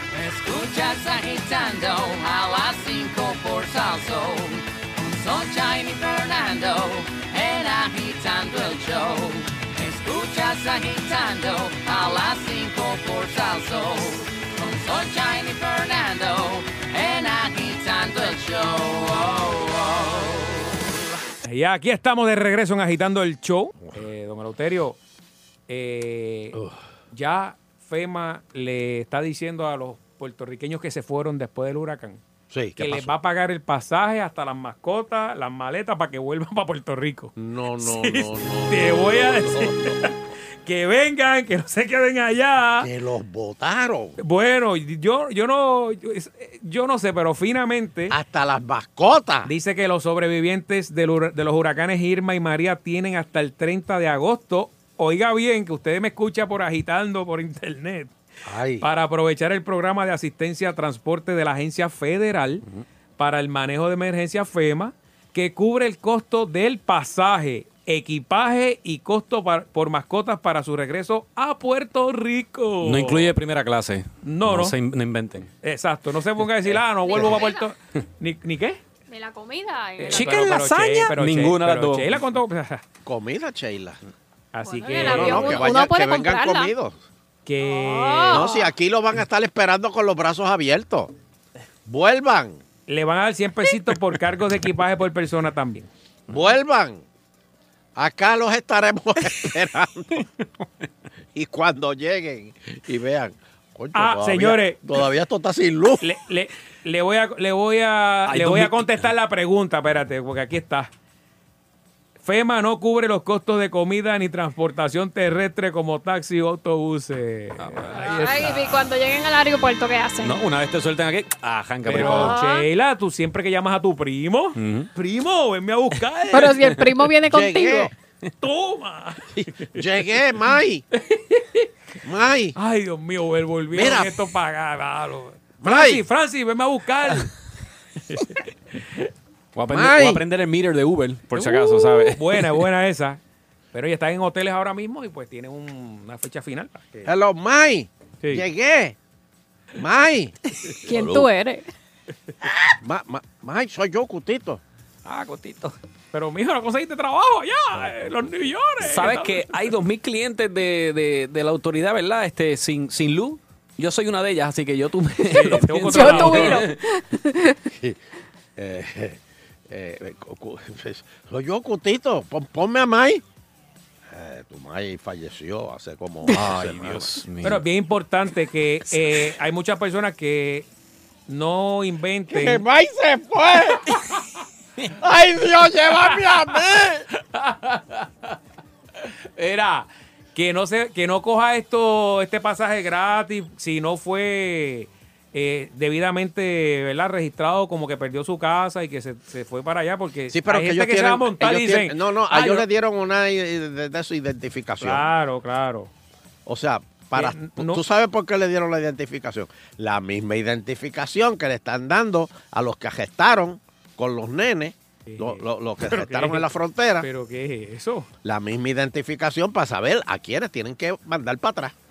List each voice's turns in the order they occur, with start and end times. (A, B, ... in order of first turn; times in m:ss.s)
0:00.1-0:20.6 A
0:21.4-0:25.0 B
0:25.7-0:26.6 B
0:27.1-0:32.2 B
0:32.5-0:33.1 C
0:32.8-0:42.9 B
0:37.4-0:40.1 C
0:42.8-0:44.2 C
0:44.2-0:48.2 B
0:48.1-0:49.5 C
0:49.4-0:58.1 B
0:58.4-0:58.9 C
0:58.8-1:02.6 B
1:03.2-1:13.4 B
1:12.8-1:15.5 D
1:14.2-1:14.8 B
1:15.6-1:18.8 B
1:17.1-1:17.6 E
1:19.1-1:20.4 E
1:20.0-1:22.8 B
1:20.1-1:22.2 D
1:23.0-1:24.0 C
1:24.5-1:25.7 B
1:24.6-1:26.7 E
1:24.9-1:27.0 C
1:27.4-1:28.5 B
1:27.6-1:28.7 E
1:28.3-1:31.1 C
1:31.9-1:32.6 C
1:32.9-1:35.9 B
1:36.3-1:37.0 C
1:38.0-1:40.2 C
1:41.3-1:46.1 C
1:43.9-1:44.8 B
1:46.0-1:50.9 B
1:48.3-1:49.0 D
1:52.2-1:58.9 B
1:57.6-1:58.1 D
1:58.0-2:00.4 E
2:00.2-2:02.4 D
2:01.8-2:06.5 B
2:02.0-2:02.6 E
2:04.6-2:04.9 D
2:06.3-2:07.9 E
2:06.4-2:06.9 D
2:07.2-2:07.9 C
2:08.4-2:09.9 B
2:09.7-2:10.8 C
2:11.0-2:11.6 B
2:12.0-2:12.6 C
2:12.5-2:17.3 B
2:13.7-2:14.2 C
2:15.6-2:16.0 C
2:18.1-2:19.1 B
2:19.5-2:22.5 D
2:19.7-2:20.2 C
2:21.3-2:23.2 B
2:23.7-2:27.1 B
2:27.0-2:29.0 C
2:28.2-2:28.4 B
2:29.8-2:30.4 C
2:30.8-2:31.7 E
2:30.9-2:31.3 C
2:32.8-2:34.6 C
2:35.0-2:39.7 B
2:38.8-2:46.8 D
2:45.3-2:46.7 B
2:45.9-2:47.6 E
2:47.7-2:48.0 C
2:48.6-2:53.2 C
2:54.1-2:57.2 C
2:56.3-2:57.6 D
2:57.4-3:00.7 B
3:01.3-3:02.6 B
3:02.3-3:03.9 C
3:05.0-3:07.0 C
3:07.3-3:08.1 B
3:09.4-3:22.6 B
3:20.3-3:25.1 C
3:24.8-3:25.9 B
3:26.4-3:37.1 C
3:27.1-3:27.8 B
3:35.0-3:38.1 B
3:38.2-3:41.7 C